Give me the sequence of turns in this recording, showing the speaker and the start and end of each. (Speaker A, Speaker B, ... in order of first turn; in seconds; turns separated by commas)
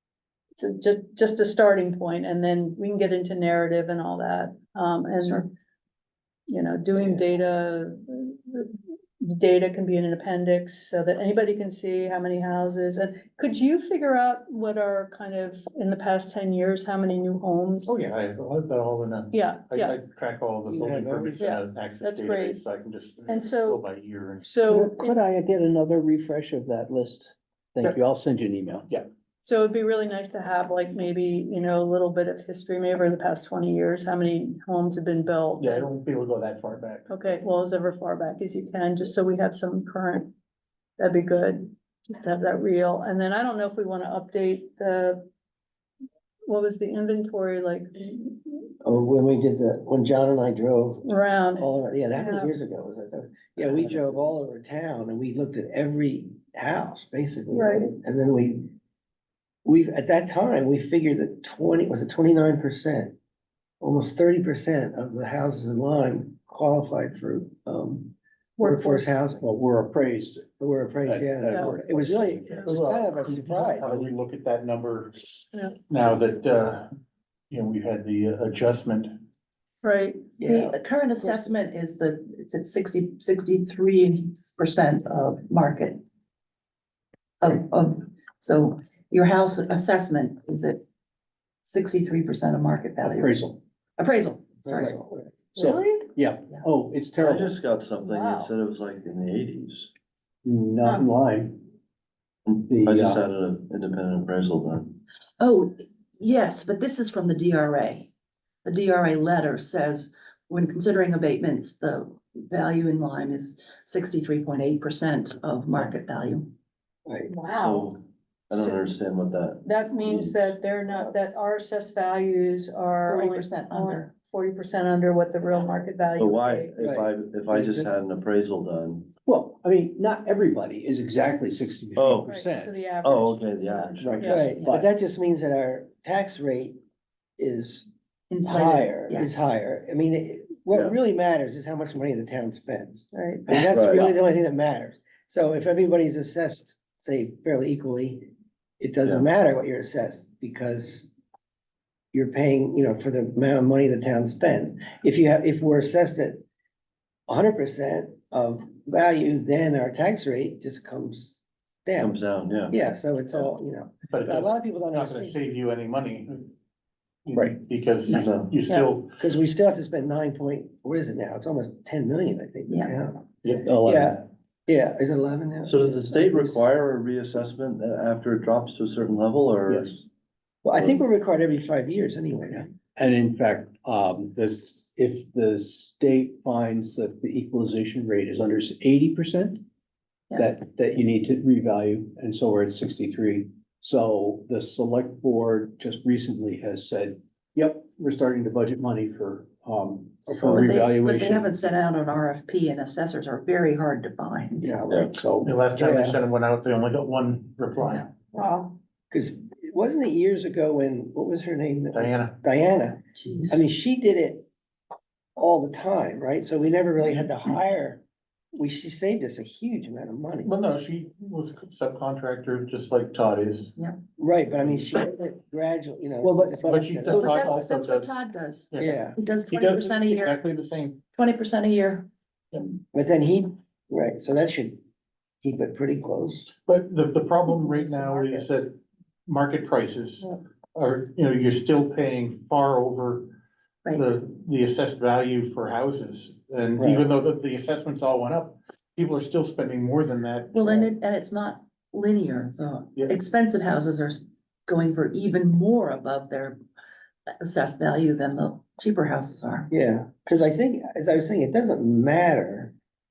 Speaker A: 0.6-5.5, Speaker B: 5.2-5.5, Speaker A: 6.5-17.9, Speaker C: 17.9-24.7, Speaker A: 19.3-20.0, Speaker D: 20.7-21.4, Speaker A: 21.4-22.6, Speaker A: 23.3-23.8, Speaker A: 24.4-25.2, Speaker E: 24.7-28.9, Speaker A: 29.4-35.9, Speaker C: 35.6-37.3, Speaker A: 37.1-40.3, Speaker A: 41.0-45.2, Speaker A: 46.5-48.7, Speaker D: 48.8-58.7, Speaker A: 51.0-52.5, Speaker A: 57.5-57.9, Speaker D: 59.6-63.1, Speaker D: 63.8-69.4, Speaker A: 68.6-69.1, Speaker E: 69.4-70.5, Speaker D: 70.6-74.1, Speaker E: 71.0-72.7, Speaker C: 72.7-75.3, Speaker C: 75.9-76.9, Speaker C: 77.5-79.1, Speaker A: 79.8-80.3, Speaker D: 80.4-80.7, Speaker B: 80.4-86.0, Speaker B: 87.4-90.8, Speaker B: 91.6-93.4, Speaker E: 93.0-93.6, Speaker B: 94.0-95.0, Speaker D: 94.7-95.4, Speaker E: 95.5-97.6, Speaker F: 97.2-99.9, Speaker A: 98.1-98.3, Speaker E: 100.5-101.6, Speaker F: 102.5-105.0, Speaker E: 102.7-103.2, Speaker B: 105.4-108.1, Speaker B: 108.7-116.5, Speaker A: 117.3-117.9, Speaker F: 117.5-118.0, Speaker F: 118.5-120.6, Speaker A: 118.5-118.8, Speaker A: 119.6-126.9, Speaker B: 123.1-124.1, Speaker F: 126.2-129.1, Speaker D: 126.8-127.9, Speaker E: 129.3-132.8, Speaker F: 131.9-132.3, Speaker A: 132.2-134.4, Speaker F: 133.0-134.3, Speaker E: 133.7-134.9, Speaker D: 134.2-136.8, Speaker D: 137.4-137.9, Speaker B: 138.3-139.4, Speaker D: 138.4-148.3, Speaker F: 140.7-141.0, Speaker A: 143.1-143.5, Speaker E: 143.5-144.1, Speaker F: 143.7-144.1, Speaker D: 148.8-151.1, Speaker D: 152.1-156.4, Speaker D: 157.3-162.2, Speaker F: 162.0-162.8, Speaker D: 162.7-165.4, Speaker C: 164.1-166.5, Speaker C: 167.3-169.1, Speaker E: 167.3-167.6, Speaker B: 168.1-168.3, Speaker F: 168.3-168.5, Speaker D: 168.7-173.3, Speaker E: 173.6-174.2, Speaker D: 173.8-176.6, Speaker F: 175.6-180.0, Speaker E: 179.7-180.0, Speaker D: 180.6-182.7, Speaker F: 180.8-181.0, Speaker E: 183.0-189.6, Speaker E: 190.4-201.5, Speaker B: 200.4-204.8, Speaker E: 204.7-205.6, Speaker C: 205.4-208.1, Speaker D: 205.8-206.2, Speaker B: 207.8-208.1, Speaker A: 208.4-208.7, Speaker D: 209.1-214.5, Speaker C: 211.9-212.4, Speaker B: 213.2-213.6, Speaker D: 215.4-218.0, Speaker D: 218.5-220.5, Speaker C: 220.4-223.7, Speaker D: 224.2-227.5, Speaker C: 224.6-224.9, Speaker E: 226.3-226.8, Speaker C: 226.7-228.1, Speaker B: 227.1-230.4, Speaker C: 228.7-231.0, Speaker D: 228.8-229.2, Speaker B: 231.1-232.1, Speaker D: 232.9-234.8, Speaker D: 235.4-236.5, Speaker C: 236.7-243.3, Speaker C: 243.9-250.9, Speaker D: 246.8-247.1, Speaker B: 250.5-256.6, Speaker B: 257.4-259.7, Speaker D: 259.7-262.7